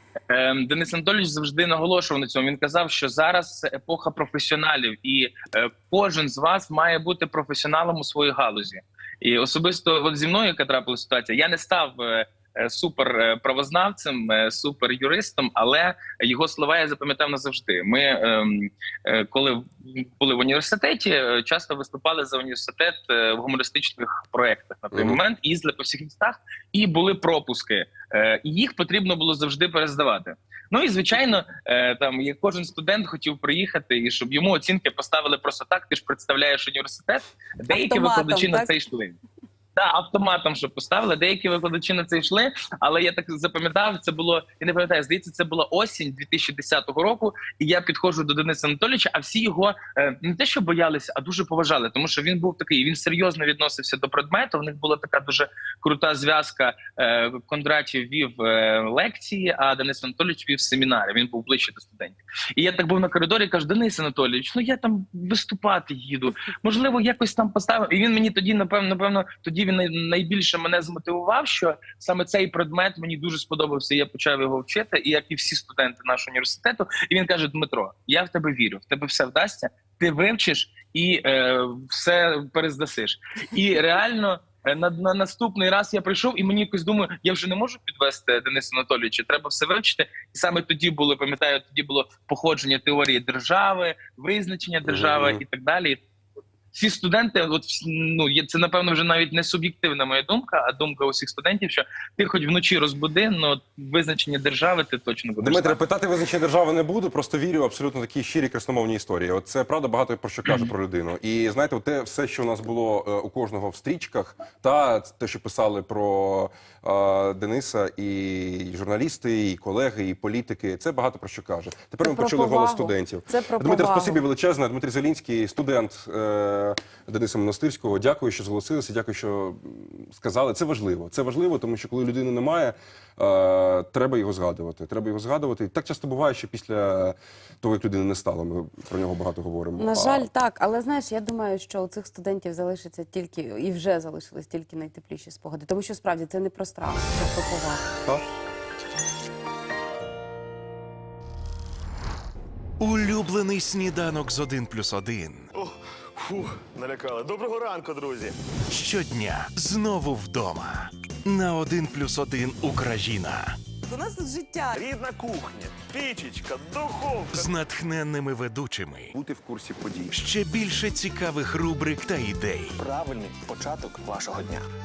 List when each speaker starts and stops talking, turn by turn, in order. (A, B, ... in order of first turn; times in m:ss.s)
0:00.3-0:39.2 A
0:24.9-0:25.2 B
0:37.7-0:38.7 C
0:39.8-1:36.0 A
1:34.8-1:35.4 B
1:36.7-1:45.8 A
1:45.4-2:20.3 B
2:02.0-2:04.2 C
2:19.8-2:27.8 C
2:32.8-2:35.5 D
2:35.6-2:38.4 E
2:38.7-2:43.5 D
2:43.9-2:44.8 C
2:44.8-2:47.4 E
2:47.3-2:49.1 D
2:49.1-2:50.1 B
2:50.1-2:52.8 D
2:52.8-2:54.7 E